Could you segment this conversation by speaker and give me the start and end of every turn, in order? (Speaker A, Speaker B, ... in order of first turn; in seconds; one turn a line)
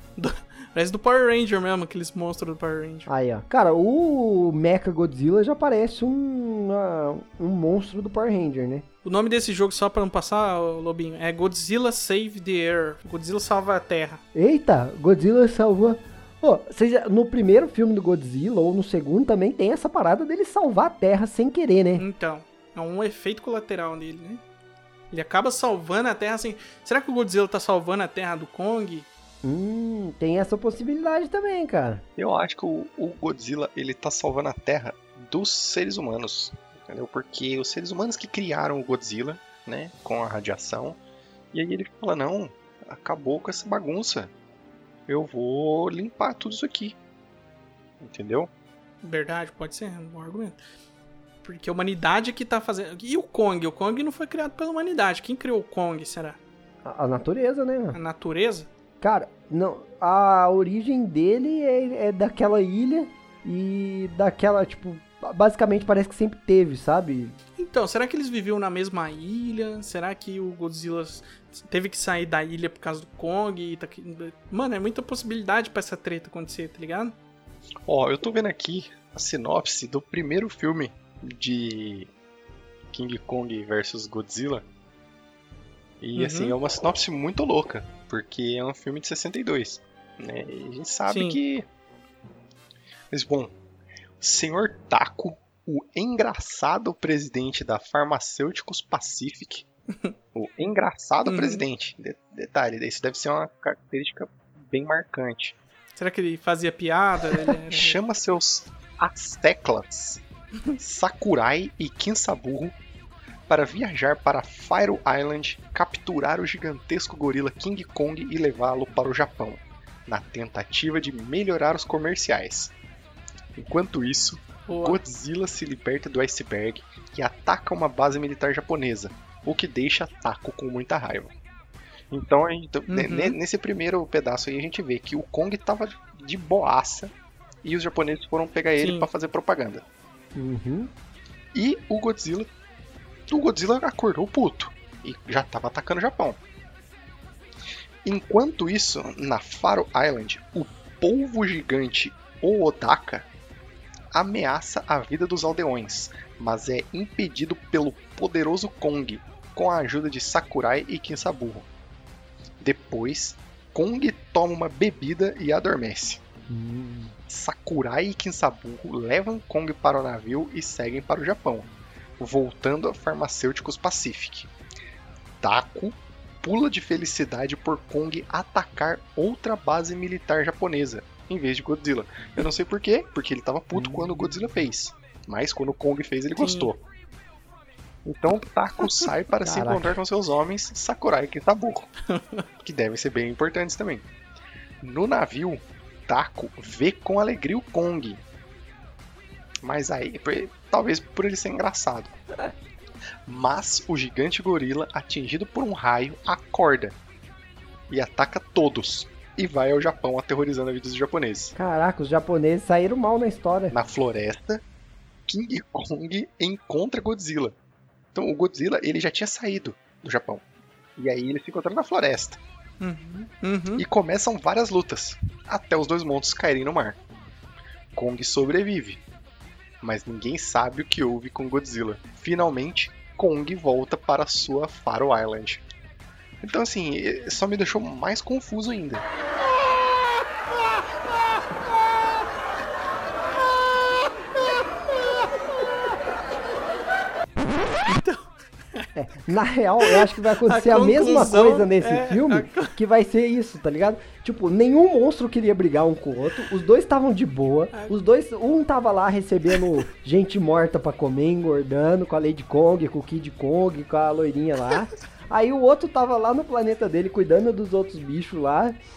Speaker A: 0.2-3.1
Speaker B: 3.1-8.8
Speaker A: 9.0-14.2
Speaker B: 14.3-22.0
Speaker A: 22.0-24.4
Speaker A: 25.1-29.1
Speaker B: 29.4-32.0
Speaker C: 32.2-41.0
Speaker C: 41.5-44.3
Speaker C: 45.1-47.0
Speaker C: 48.0-48.5
Speaker A: 49.0-50.6
Speaker A: 51.4-56.4
Speaker B: 56.8-58.0
Speaker A: 57.9-58.7
Speaker B: 59.0-67.3
Speaker A: 67.6-77.1
Speaker C: 77.9-82.1
Speaker C: 82.9-84.6
Speaker C: 86.0-91.6
Speaker A: 86.2-86.5
Speaker A: 91.1-91.4
Speaker C: 93.1-93.5
Speaker C: 94.2-99.7
Speaker C: 100.3-105.5
Speaker A: 101.2-101.6
Speaker A: 106.0-108.0
Speaker C: 107.7-110.2
Speaker C: 110.8-112.7
Speaker C: 113.5-122.7
Speaker C: 123.5-131.3
Speaker A: 124.7-125.0
Speaker C: 132.1-137.1
Speaker A: 132.9-133.4
Speaker C: 137.6-139.8
Speaker A: 138.8-139.1
Speaker B: 140.3-140.9
Speaker C: 141.5-142.5
Speaker C: 143.3-146.4
Speaker C: 148.0-153.3
Speaker C: 154.1-161.7
Speaker C: 162.6-166.2
Speaker B: 166.5-167.1
Speaker C: 167.3-174.5
Speaker C: 175.4-186.8
Speaker B: 183.7-184.6
Speaker A: 186.3-186.7
Speaker C: 188.0-191.9
Speaker B: 189.4-190.0
Speaker A: 192.1-192.4
Speaker C: 192.6-194.0
Speaker C: 194.8-198.2
Speaker C: 199.6-202.2
Speaker C: 203.3-206.9
Speaker C: 207.9-211.5
Speaker B: 211.5-213.7
Speaker C: 213.7-214.6
Speaker C: 215.3-217.5
Speaker C: 218.1-220.4
Speaker C: 221.0-222.4
Speaker A: 222.8-223.8
Speaker C: 223.8-227.0
Speaker C: 227.9-229.0
Speaker C: 229.8-235.6
Speaker C: 236.4-239.0
Speaker A: 247.8-248.9
Speaker B: 248.9-268.8
Speaker A: 249.8-252.8